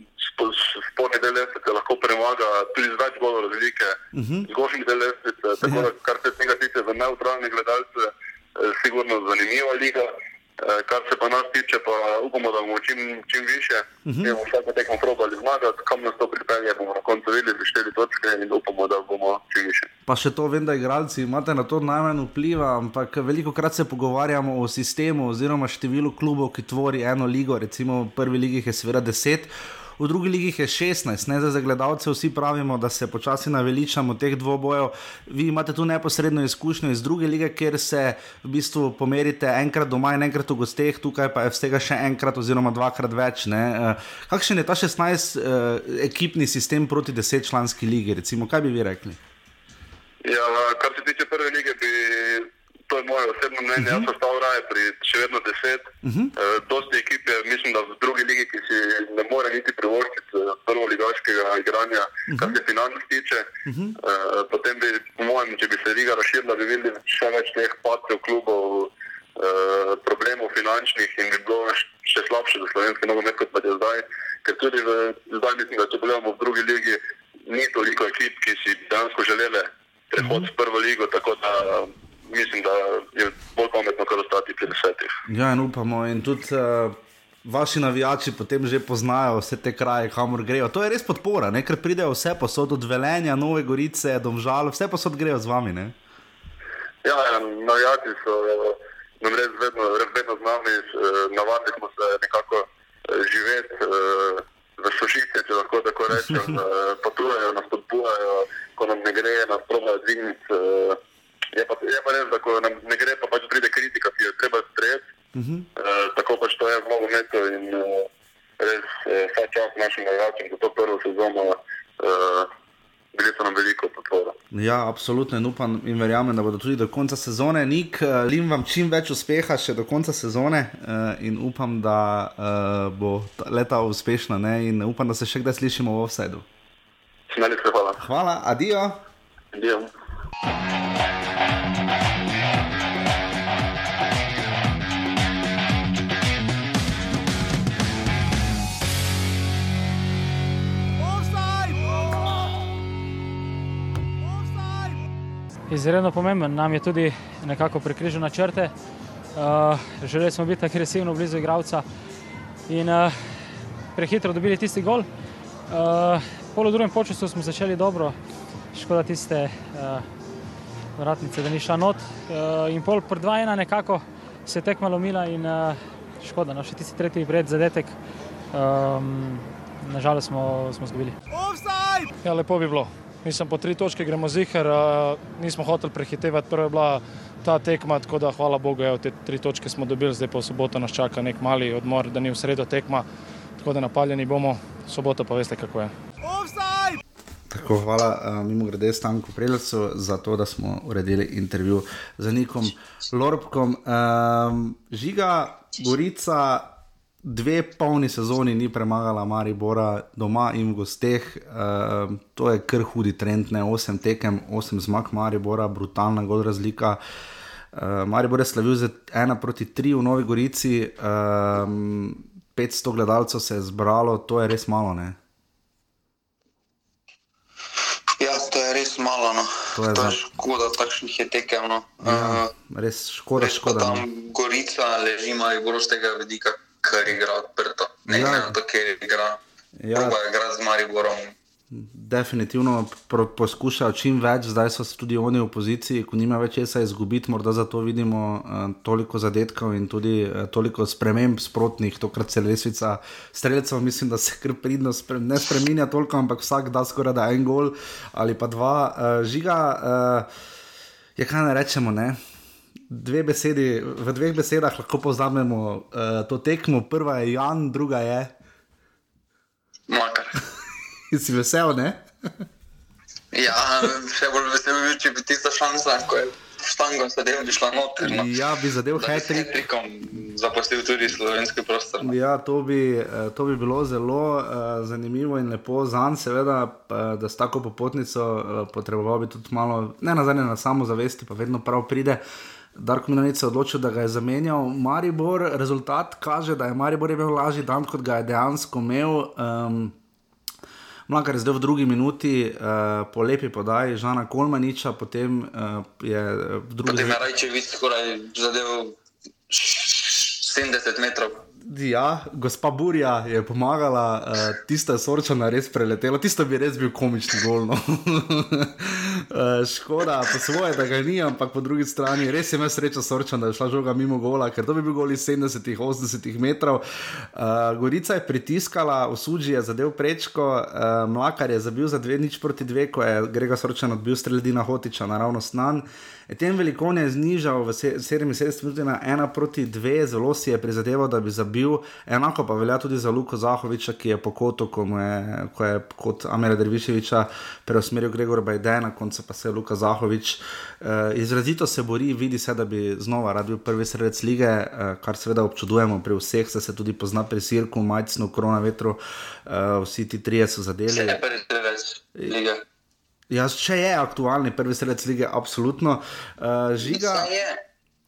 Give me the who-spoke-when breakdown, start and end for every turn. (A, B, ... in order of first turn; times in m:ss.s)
0:00.4-0:04.0 A
0:04.1-0:04.5 B
0:04.5-0:08.1 A
0:08.6-0:10.1 A
0:10.6-0:19.9 A
0:14.0-0:14.4 B
0:20.1-0:49.2 B
0:50.2-0:55.8 A
0:53.8-0:54.1 B
0:56.0-0:56.3 B
0:56.4-1:03.5 A
1:02.3-1:02.6 B
1:03.7-1:04.0 B
1:04.0-1:25.1 A
1:20.2-1:20.4 B
1:25.3-1:35.9 B
1:37.0-1:51.0 A
1:51.6-1:55.0 A
1:55.3-1:55.7 B
1:55.8-1:58.0 A
1:58.6-2:01.5 A
2:02.0-2:02.4 A
2:03.2-2:04.3 A
2:04.5-2:16.5 B
2:17.3-2:18.0 A
2:18.0-2:19.0 B
2:35.7-2:38.7 C
2:39.4-2:41.8 C
2:42.7-2:43.2 C
2:44.0-2:45.1 C
2:45.7-2:48.2 C
2:48.7-2:50.1 C
2:51.0-2:58.0 C
2:58.5-3:01.2 C
3:02.2-3:13.1 D
3:13.6-3:15.9 D
3:17.5-3:26.7 B
3:27.2-3:37.0 B
3:37.7-3:45.2 B
3:48.2-3:52.5 E
3:49.8-3:50.2 B
3:52.0-3:54.0 B
3:53.4-3:59.4 E
3:58.1-3:58.6 B
3:59.8-4:00.2 B
3:59.9-4:01.3 E
4:01.7-4:20.3 B
4:21.2-4:22.2 B
4:22.9-4:28.3 B
4:29.9-4:30.4 E
4:31.1-4:32.0 B
4:33.3-4:38.4 E
4:38.0-4:39.6 B
4:39.0-4:42.1 E
4:42.0-4:52.2 B
4:52.8-5:00.0 B
5:01.1-5:07.2 B
5:06.9-5:09.0 E
5:09.5-5:11.4 E
5:11.6-6:01.2 B
6:00.9-6:02.6 E
6:03.3-6:07.3 B
6:06.8-6:07.6 E